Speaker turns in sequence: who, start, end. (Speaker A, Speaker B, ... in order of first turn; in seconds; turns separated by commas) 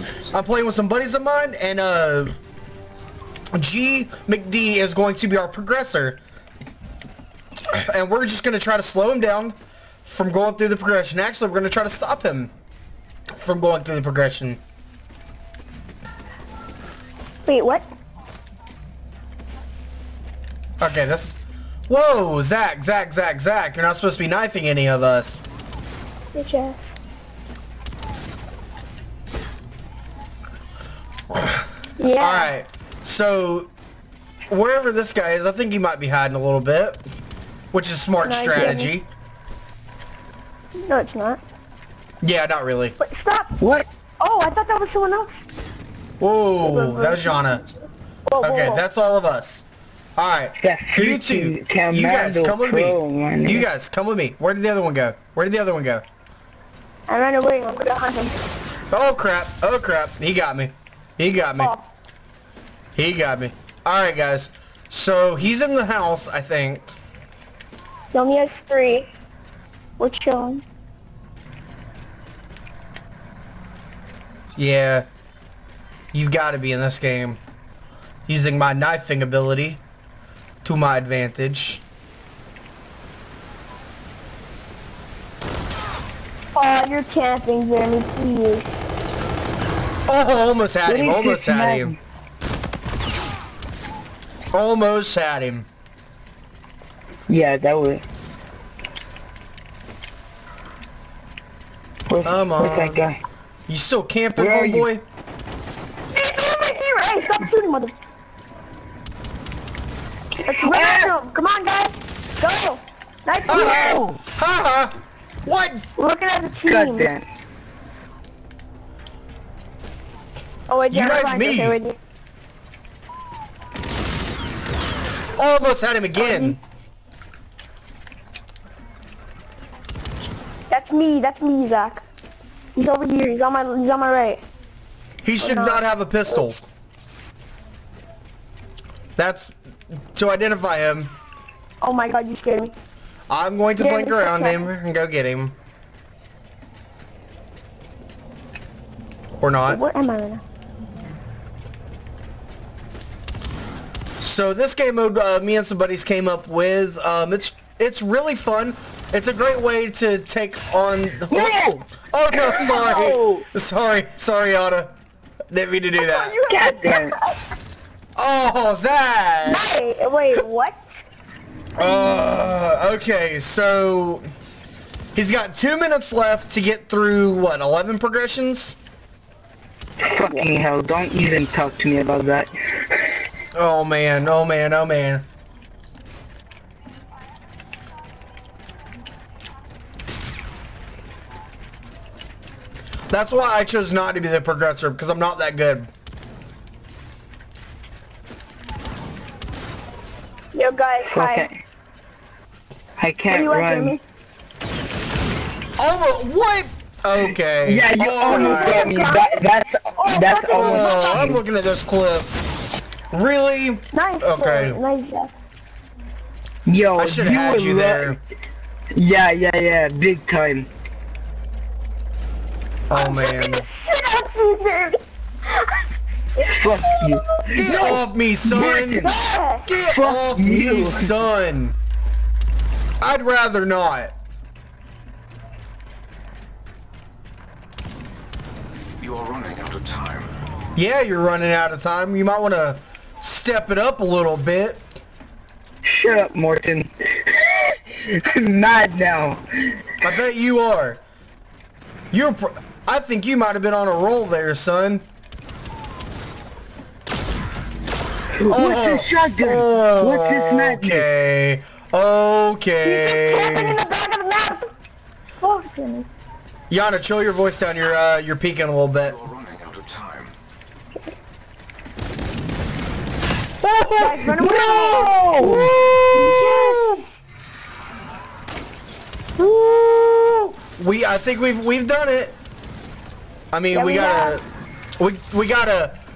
Speaker A: 0.3-2.4, Speaker A: 3.5-6.2, Speaker A: 7.8-12.5, Speaker A: 13.4-14.6, Speaker B: 17.5-17.9, Speaker A: 20.8-21.4, Speaker A: 21.9-25.4, Speaker B: 26.3-27.0, Speaker A: 31.3-33.7, Speaker B: 32.0-32.5, Speaker A: 34.5-37.0, Speaker A: 37.7-39.1, Speaker B: 38.2-38.9, Speaker B: 40.8-41.4, Speaker A: 42.2-43.0, Speaker B: 43.0-43.6, Speaker C: 43.6-43.9, Speaker B: 44.2-45.5, Speaker A: 46.2-47.6, Speaker B: 46.6-48.8, Speaker A: 48.4-49.6, Speaker A: 50.2-56.0, Speaker C: 50.6-53.7, Speaker B: 57.1-58.4, Speaker A: 58.9-61.7, Speaker B: 61.6-61.9, Speaker A: 62.9-66.9, Speaker B: 68.1-69.1, Speaker B: 70.0-70.6, Speaker A: 74.5-75.1, Speaker A: 76.1-77.4, Speaker A: 78.3-79.8, Speaker A: 80.6-81.8, Speaker B: 86.5-88.9, Speaker A: 90.1-91.9, Speaker C: 90.9-92.0, Speaker A: 94.5-95.7, Speaker C: 97.3-98.0, Speaker C: 102.1-103.2, Speaker A: 102.2-103.0, Speaker A: 103.7-105.0, Speaker C: 104.4-104.9, Speaker B: 106.1-107.9, Speaker B: 110.4-114.0, Speaker C: 110.6-111.1, Speaker A: 113.5-114.9, Speaker C: 113.5-114.2, Speaker A: 115.5-115.8, Speaker B: 116.0-117.1, Speaker C: 116.7-117.2, Speaker B: 120.7-122.0, Speaker A: 120.9-121.8, Speaker A: 125.4-126.6, Speaker B: 126.2-126.6, Speaker B: 130.7-132.0, Speaker B: 132.8-134.4, Speaker A: 135.2-136.6, Speaker B: 135.4-136.6, Speaker A: 139.2-139.5, Speaker A: 140.1-141.2, Speaker B: 141.8-142.7, Speaker A: 143.3-145.6, Speaker B: 143.8-144.7, Speaker A: 149.4-149.8, Speaker B: 149.7-150.4, Speaker A: 154.2-164.9, Speaker C: 161.3-163.5, Speaker B: 162.6-163.4, Speaker A: 165.5-166.4, Speaker B: 166.0-167.3, Speaker C: 166.5-167.2, Speaker A: 168.2-169.7, Speaker B: 169.4-171.1, Speaker A: 171.8-174.2, Speaker B: 171.8-172.3, Speaker A: 175.2-178.8, Speaker C: 180.0-183.2, Speaker A: 183.5-185.3, Speaker A: 193.1-195.9, Speaker B: 200.5-201.5, Speaker C: 201.1-201.6, Speaker C: 203.0-204.0, Speaker B: 203.3-204.0, Speaker A: 205.8-208.9, Speaker C: 207.6-211.4, Speaker B: 208.1-209.3, Speaker B: 210.0-211.3, Speaker A: 210.5-212.3, Speaker A: 213.1-214.8, Speaker B: 213.9-215.3, Speaker C: 216.7-218.2, Speaker A: 217.0-218.2, Speaker C: 218.9-220.7, Speaker A: 222.9-223.7, Speaker B: 222.9-227.2, Speaker C: 226.5-229.3, Speaker A: 227.6-231.8, Speaker B: 229.0-229.8, Speaker C: 229.8-231.2, Speaker A: 233.0-234.1, Speaker D: 239.0-240.3, Speaker A: 240.8-244.9, Speaker C: 245.8-249.9, Speaker A: 250.0-251.0, Speaker A: 252.1-255.1, Speaker C: 258.4-261.1, Speaker A: 258.5-263.8, Speaker B: 262.8-264.6, Speaker B: 265.4-266.1, Speaker A: 266.7-269.3, Speaker D: 269.3-270.3, Speaker A: 273.6-275.1, Speaker B: 274.0-275.1, Speaker C: 274.4-275.8, Speaker B: 276.1-277.2, Speaker A: 276.3-277.0, Speaker A: 279.4-282.4, Speaker A: 283.5-284.4, Speaker B: 283.7-284.4, Speaker A: 285.0-286.0